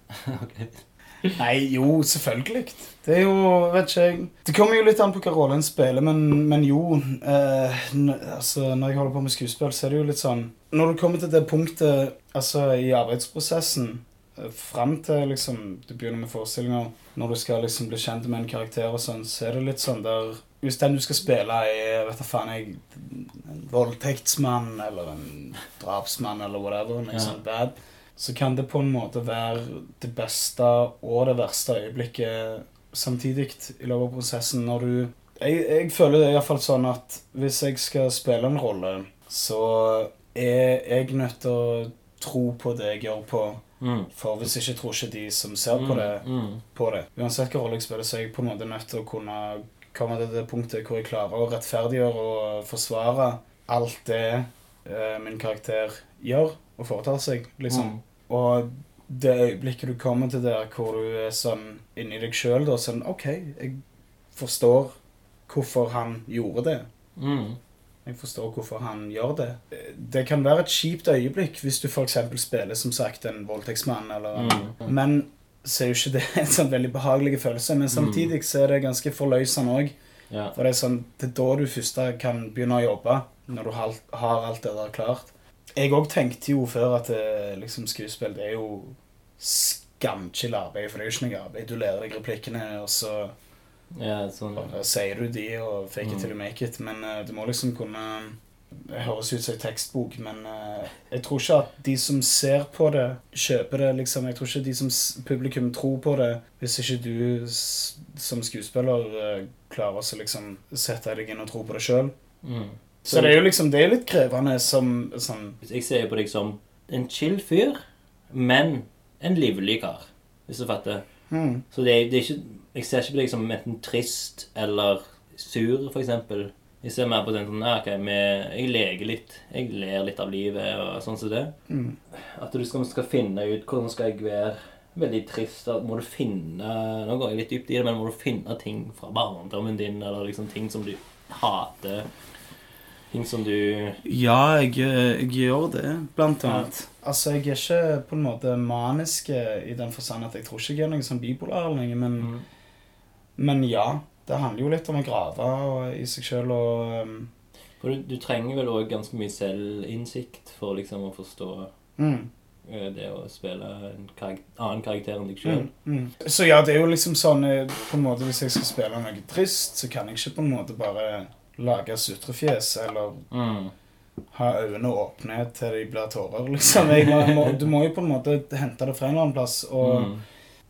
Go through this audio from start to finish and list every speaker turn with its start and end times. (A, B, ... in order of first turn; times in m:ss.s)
0:00.1-0:01.4 A
0:01.4-0:43.6 B
0:27.1-0:27.4 A
0:43.8-0:44.1 A
0:44.1-1:03.8 B
0:45.7-0:46.6 A
0:57.7-0:58.0 A
1:04.3-1:05.0 B
1:05.5-1:06.9 B
1:07.2-1:07.6 A
1:08.0-1:19.9 B
1:14.3-1:14.9 A
1:17.9-1:18.3 A
1:20.5-1:33.3 B
1:33.9-1:34.7 A
1:34.6-1:52.1 B
1:36.0-1:36.3 A
1:52.4-1:53.4 A
1:53.0-1:55.6 B
1:55.6-2:01.0 A
2:01.3-2:01.6 B
2:01.7-2:11.5 A
2:11.7-2:12.0 B
2:12.1-2:22.1 A
2:23.1-2:24.0 A
2:24.0-2:32.3 B
2:26.4-2:26.7 A
2:32.2-2:32.4 A
2:33.4-2:37.3 B
2:37.8-2:41.7 A
2:42.0-2:42.3 B
2:42.6-2:45.7 A
2:45.4-2:53.2 B
2:53.3-2:53.7 A
2:54.3-3:00.1 B
2:59.8-3:00.2 A